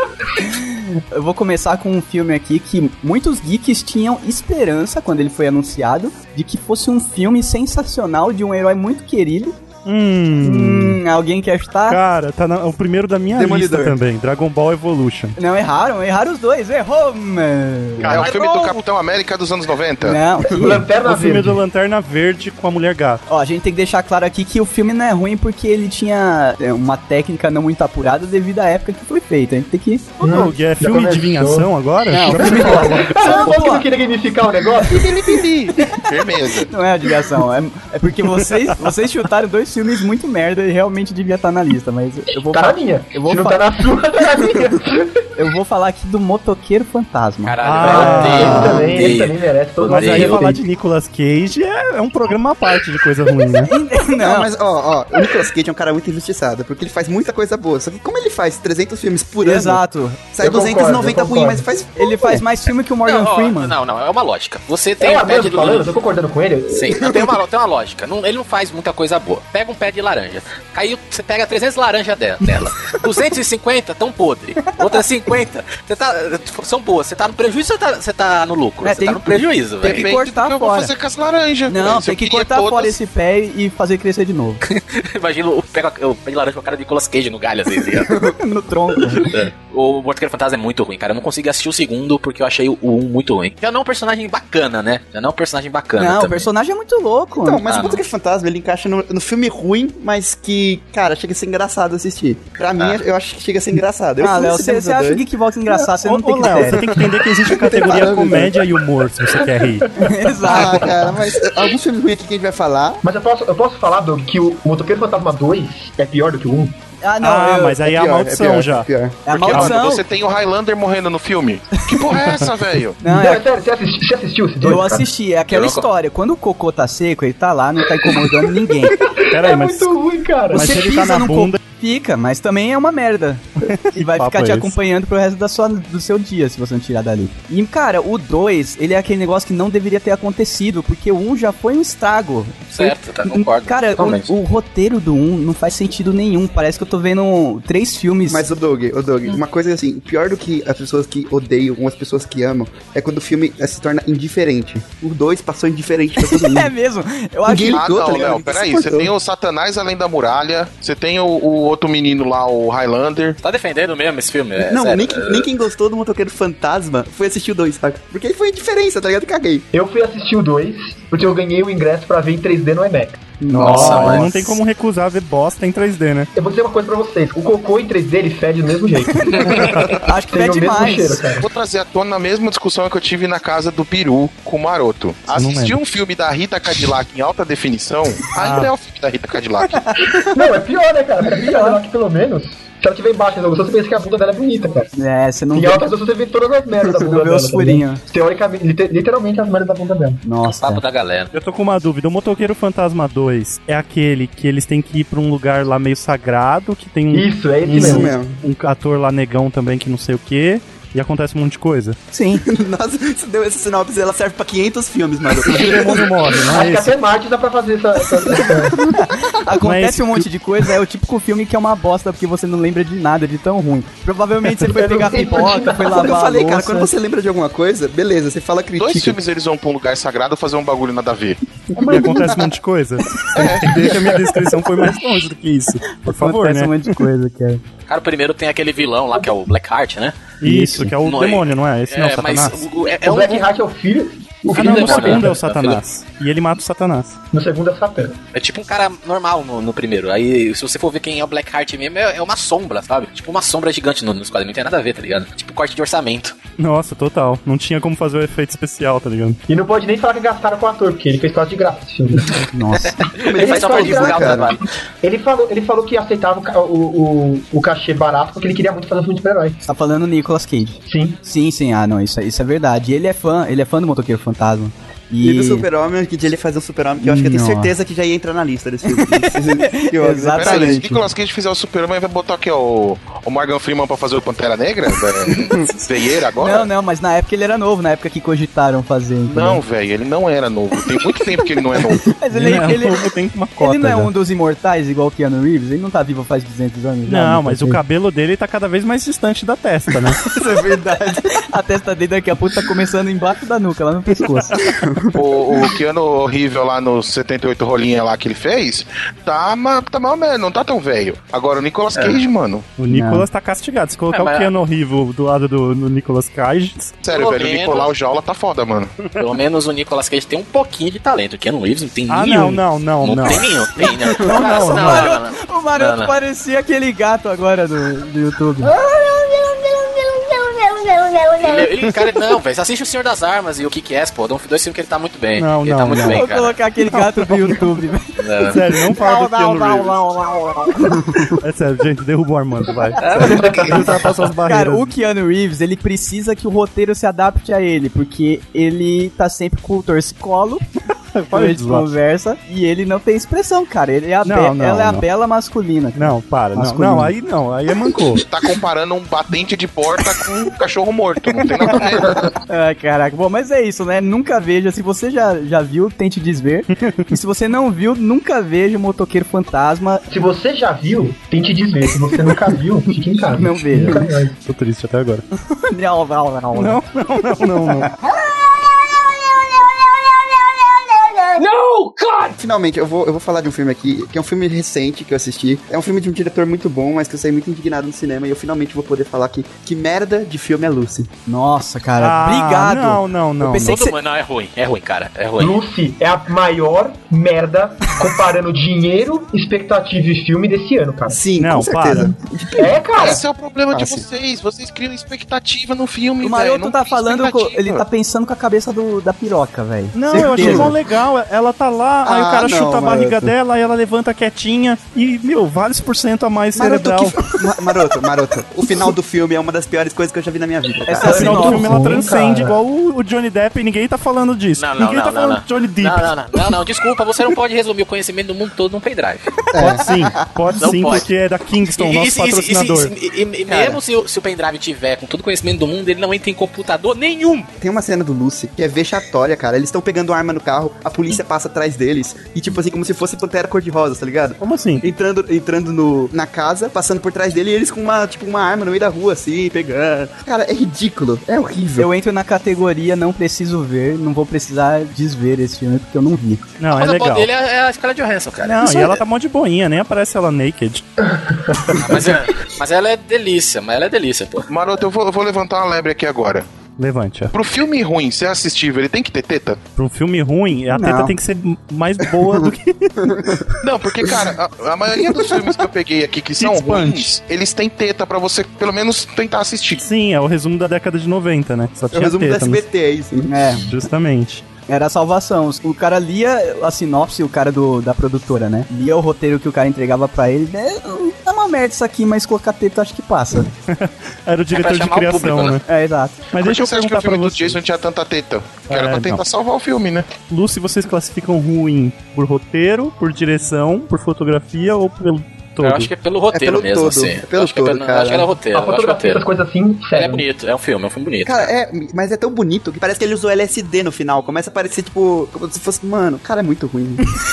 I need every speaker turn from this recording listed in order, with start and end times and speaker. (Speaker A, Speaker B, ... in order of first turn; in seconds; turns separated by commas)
Speaker A: 0.4-9.6, Speaker B: 9.8-11.0, Speaker A: 10.4-12.0, Speaker B: 11.9-15.3, Speaker C: 13.3-14.0, Speaker A: 15.4-18.2, Speaker B: 18.0-18.3, Speaker D: 18.0-20.2, Speaker E: 18.1-18.8, Speaker A: 20.0-20.9, Speaker F: 20.4-21.6, Speaker B: 21.0-23.2, Speaker A: 23.3-30.2, Speaker F: 30.2-31.7, Speaker B: 30.2-33.4, Speaker A: 32.1-33.9, Speaker F: 32.2-35.5, Speaker D: 35.0-36.7, Speaker A: 36.7-43.7, Speaker B: 38.5-38.9, Speaker F: 42.5-45.2, Speaker A: 45.4-47.6, Speaker E: 47.4-50.5, Speaker B: 47.6-48.8, Speaker F: 47.8-50.5, Speaker A: 48.1-48.7, Speaker C: 48.5-48.9, Speaker B: 49.9-53.7, Speaker A: 53.6-54.5, Speaker C: 54.2-59.8, Speaker A: 59.4-60.2, Speaker C: 60.3-62.4, Speaker F: 60.4-61.7, Speaker A: 62.0-63.8, Speaker E: 63.0-65.9, Speaker F: 65.0-66.9, Speaker E: 66.7-80.1, Speaker C: 67.0-67.3, Speaker A: 74.7-75.0, Speaker A: 78.8-80.9, Speaker D: 79.8-83.0, Speaker A: 81.7-84.6, Speaker E: 84.7-88.3, Speaker A: 88.1-89.3, Speaker E: 89.2-96.5, Speaker A: 96.0-97.7, Speaker C: 97.4-105.2, Speaker E: 97.7-98.0, Speaker E: 102.8-103.0, Speaker A: 104.2-106.9, Speaker B: 105.7-109.9, Speaker C: 106.9-108.6, Speaker A: 110.0-111.0, Speaker C: 110.4-113.0, Speaker F: 113.0-116.8, Speaker A: 117.0-117.8, Speaker B: 117.2-118.9, Speaker C: 117.8-119.2, Speaker A: 119.3-120.0, Speaker D: 119.3-123.0, Speaker A: 123.0-123.4, Speaker F: 123.0-125.1, Speaker A: 124.6-129.0, Speaker E: 125.5-125.8, Speaker F: 128.9-130.8, Speaker B: 129.3-129.9, Speaker A: 130.5-148.4, Speaker B: 130.5-131.6, Speaker B: 133.7-134.7, Speaker E: 142.7-144.3, Speaker C: 148.3-156.7, Speaker A: 156.2-158.2, Speaker C: 157.5-159.1, Speaker D: 157.7-163.4, Speaker E: 163.4-165.5, Speaker C: 164.6-169.7, Speaker F: 169.7-173.3, Speaker A: 173.4-174.5, Speaker B: 173.5-176.3, Speaker E: 173.6-174.5, Speaker F: 176.4-181.5, Speaker A: 179.2-181.2, Speaker E: 179.3-179.7, Speaker D: 181.4-189.9, Speaker B: 185.3-185.8, Speaker B: 188.4-188.7, Speaker A: 189.8-190.2, Speaker F: 190.2-194.9, Speaker A: 191.4-191.8, Speaker A: 194.9-195.9, Speaker F: 195.5-200.2, Speaker A: 196.9-198.0, Speaker A: 200.2-200.8, Speaker E: 200.4-201.3, Speaker B: 201.3-212.0, Speaker F: 207.1-208.1, Speaker C: 207.7-208.4, Speaker A: 212.1-212.4, Speaker C: 212.4-216.1, Speaker B: 215.4-216.9, Speaker F: 216.4-218.8, Speaker A: 218.8-226.9, Speaker B: 219.6-220.3, Speaker F: 224.7-226.1, Speaker C: 225.9-229.2, Speaker D: 228.8-231.4, Speaker C: 231.8-232.5, Speaker B: 231.9-237.1, Speaker D: 233.3-233.9, Speaker A: 236.0-237.6, Speaker E: 237.9-240.2, Speaker B: 240.4-242.6, Speaker A: 240.4-240.9, Speaker E: 241.0-243.5, Speaker F: 243.0-245.4, Speaker B: 244.6-247.2, Speaker E: 244.6-245.8, Speaker F: 247.3-248.2, Speaker E: 248.3-256.4, Speaker B: 256.6-259.4, Speaker F: 259.5-262.3, Speaker A: 262.5-263.0, Speaker E: 262.7-264.6, Speaker C: 263.2-264.5, Speaker F: 263.3-269.6, Speaker A: 269.6-275.7, Speaker F: 270.9-271.2, Speaker C: 275.2-281.0, Speaker A: 277.0-277.7, Speaker A: 278.9-281.0, Speaker D: 280.4-286.7, Speaker E: 285.4-285.8, Speaker A: 286.4-289.6, Speaker D: 289.3-292.1, Speaker A: 291.8-293.1, Speaker B: 292.3-294.1, Speaker A: 293.6-297.8, Speaker B: 297.1-300.2, Speaker A: 300.2-304.6, Speaker B: 304.2-304.6, Speaker C: 304.7-305.1, Speaker D: 305.1-312.7, Speaker E: 311.9-312.2, Speaker B: 312.8-317.0, Speaker A: 312.9-313.3, Speaker E: 314.1-314.5, Speaker D: 317.0-319.0, Speaker E: 317.1-317.9, Speaker E: 319.2-326.1, Speaker B: 322.1-323.5, Speaker A: 323.8-328.7, Speaker B: 324.2-325.1, Speaker G: 328.6-331.9, Speaker E: 331.4-336.6, Speaker B: 335.4-336.3, Speaker A: 336.0-338.1, Speaker B: 336.8-337.8, Speaker E: 338.2-338.7, Speaker B: 338.5-340.0, Speaker A: 339.0-341.0, Speaker B: 341.4-344.9, Speaker E: 343.0-344.1, Speaker F: 343.4-343.7, Speaker A: 344.4-350.6, Speaker B: 351.1-351.9, Speaker A: 351.3-357.1, Speaker B: 354.2-355.1, Speaker B: 356.0-358.2, Speaker D: 358.2-362.3, Speaker A: 362.5-370.0, Speaker B: 366.8-367.2, Speaker F: 370.1-374.4, Speaker A: 373.3-374.1, Speaker B: 374.5-375.2, Speaker A: 375.5-376.8, Speaker B: 376.6-377.9, Speaker A: 377.6-377.9, Speaker G: 378.0-382.4, Speaker C: 382.4-391.1, Speaker A: 391.3-393.9, Speaker B: 392.0-393.8, Speaker E: 393.6-395.6, Speaker F: 395.4-401.2, Speaker C: 401.1-403.2, Speaker B: 401.4-402.1, Speaker F: 402.6-403.2, Speaker D: 403.0-407.8, Speaker C: 403.7-404.0, Speaker A: 406.2-410.7, Speaker B: 409.9-417.2, Speaker C: 410.1-410.8, Speaker C: 412.1-413.3, Speaker C: 416.6-421.4, Speaker A: 420.9-422.0, Speaker B: 421.0-426.1, Speaker F: 421.0-422.5, Speaker E: 424.6-429.3, Speaker C: 429.5-430.3, Speaker B: 429.6-432.9, Speaker E: 430.6-431.1, Speaker E: 431.7-437.5, Speaker C: 437.6-451.9, Speaker B: 444.4-444.9, Speaker A: 451.8-456.4, Speaker B: 456.6-457.3, Speaker E: 456.7-459.0, Speaker B: 458.4-460.9, Speaker E: 461.8-464.5, Speaker D: 464.5-466.5, Speaker B: 466.8-467.3, Speaker D: 467.3-469.6, Speaker B: 469.8-473.1, Speaker A: 470.7-471.1, Speaker C: 473.0-473.5, Speaker D: 473.6-479.8, Speaker B: 476.4-477.2, Speaker B: 479.8-482.6, Speaker C: 481.9-483.3, Speaker A: 483.3-483.6, Speaker B: 483.6-484.5, Speaker A: 484.7-493.5, Speaker B: 493.7-495.6, Speaker E: 494.5-495.6, Speaker A: 495.7-496.2, Speaker B: 496.3-497.6, Speaker D: 496.4-500.1, Speaker B: 498.7-499.2, Speaker B: 500.3-505.9, Speaker E: 505.6-509.3, Speaker C: 506.3-508.4, Speaker F: 508.5-510.2, Speaker E: 509.9-511.5, Speaker C: 511.2-517.2